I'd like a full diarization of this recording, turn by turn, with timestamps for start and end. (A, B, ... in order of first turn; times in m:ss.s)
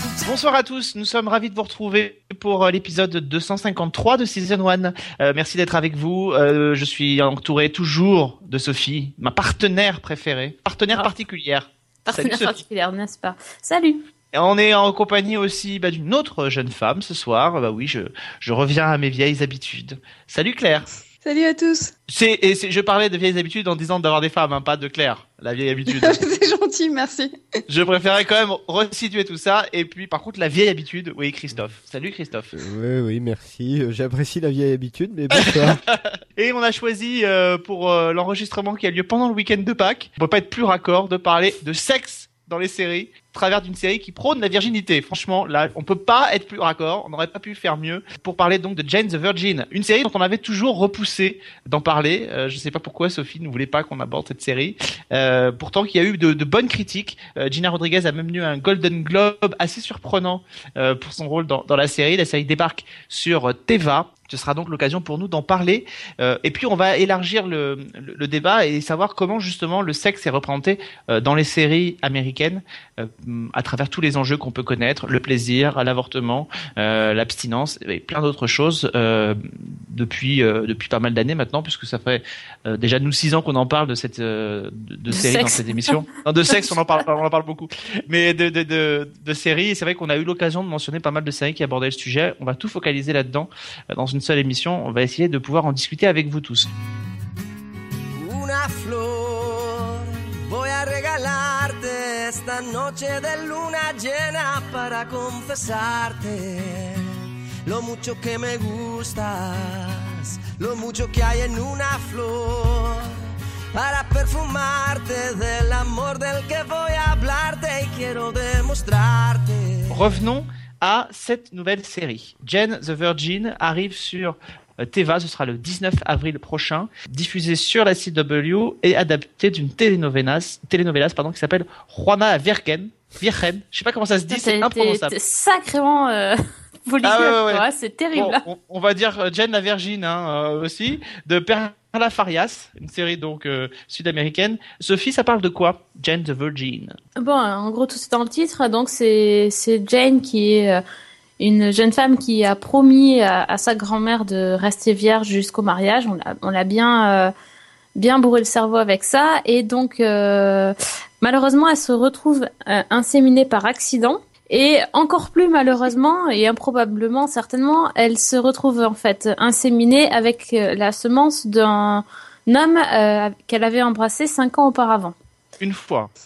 0:00.2-0:12.6 A
0:12.0-0:14.0 B
0:14.3-0:20.9 A
0:21.2-0:21.9 C
0:22.1-0:26.3 A
0:25.9-0:27.4 C
0:27.7-0:32.5 A
0:32.5-0:35.8 D
0:35.3-1:36.7 A
1:25.1-1:25.9 B
1:38.2-1:47.1 E
1:47.6-1:53.0 E
1:53.7-2:00.0 E
1:59.9-2:15.1 A
2:14.3-2:18.4 B
2:17.0-2:27.0 A
2:27.2-2:30.8 B
2:31.4-2:37.3 B
2:38.0-2:55.1 B
2:55.6-2:56.1 A